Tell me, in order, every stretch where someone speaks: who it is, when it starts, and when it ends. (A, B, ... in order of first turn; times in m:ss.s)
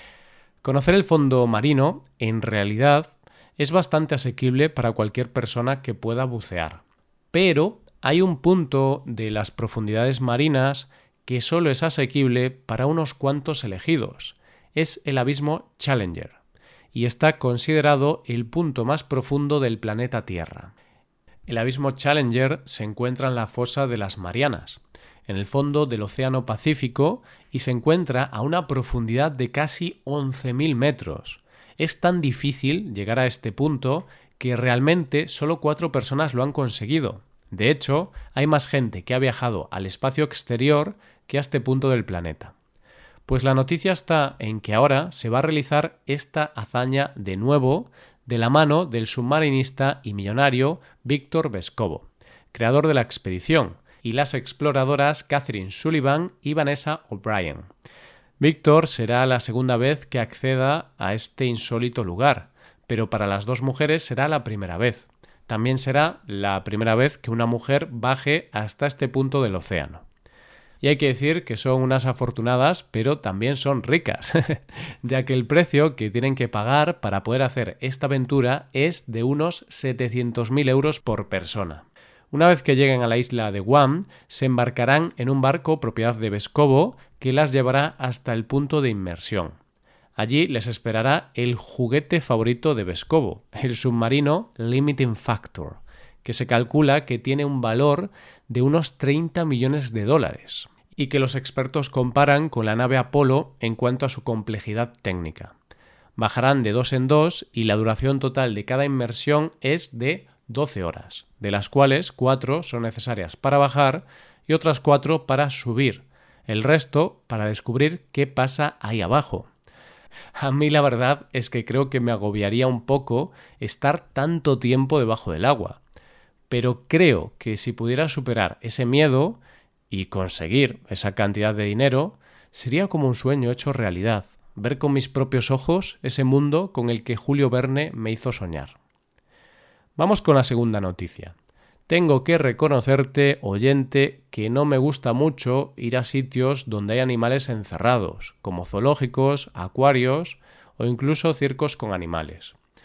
0:00.6-0:16.4 A
0:16.9-0:20.7 A
0:21.5-0:42.5 A
0:43.3-0:57.7 A
0:58.4-1:10.0 A
1:10.8-1:29.6 A
1:30.2-1:45.5 A
1:46.2-1:59.5 A
2:00.4-2:05.8 A
2:06.5-2:09.4 A
2:09.9-2:18.8 A
2:20.0-2:21.3 A
2:21.9-2:32.6 A